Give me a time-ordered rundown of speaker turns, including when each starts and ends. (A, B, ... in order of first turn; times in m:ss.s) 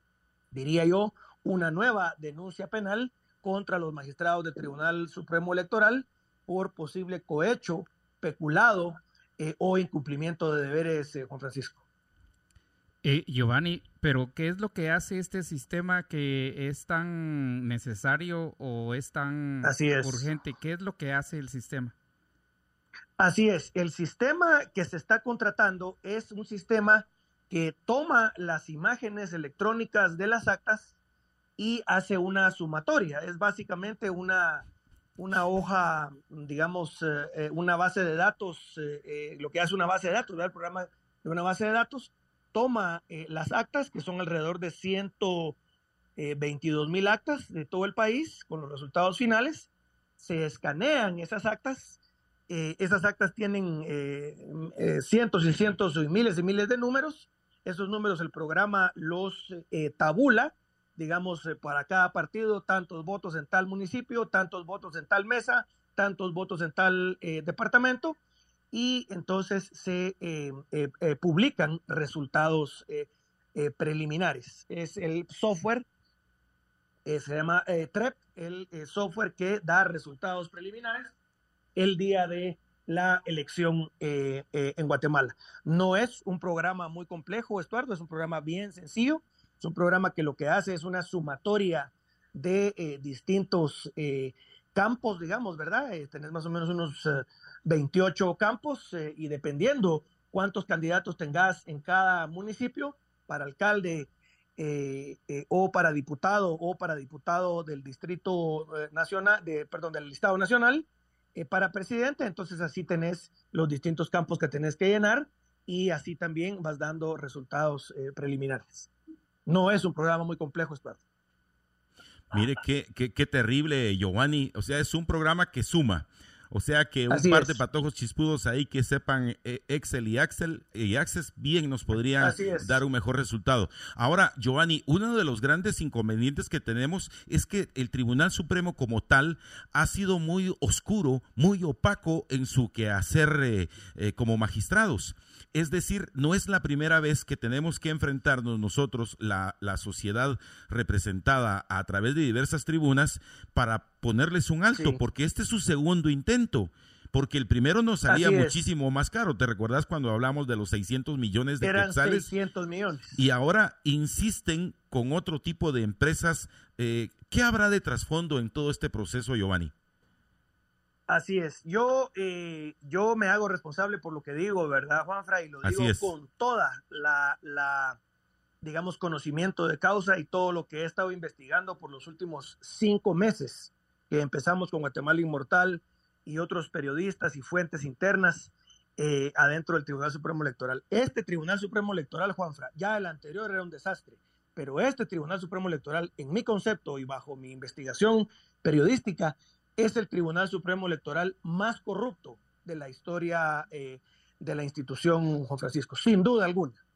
0:00.5-0:11.8 A
0:13.0-0:22.0 B
0:19.6-0:20.3 A
0:23.2-0:30.9 A
0:31.6-0:45.6 A
0:46.2-0:52.0 A
0:52.5-1:08.2 A
1:08.7-1:15.8 A
1:17.0-1:21.1 A
1:21.8-1:58.9 A
1:59.4-2:01.0 A
2:02.3-2:42.3 C
2:07.1-2:07.6 A
2:12.2-2:12.8 A
2:34.7-2:35.0 A
2:38.1-2:38.6 A
2:41.6-2:43.2 A
2:43.1-2:49.7 C
2:51.1-2:58.0 A
2:55.6-2:56.1 C
2:58.6-3:26.8 A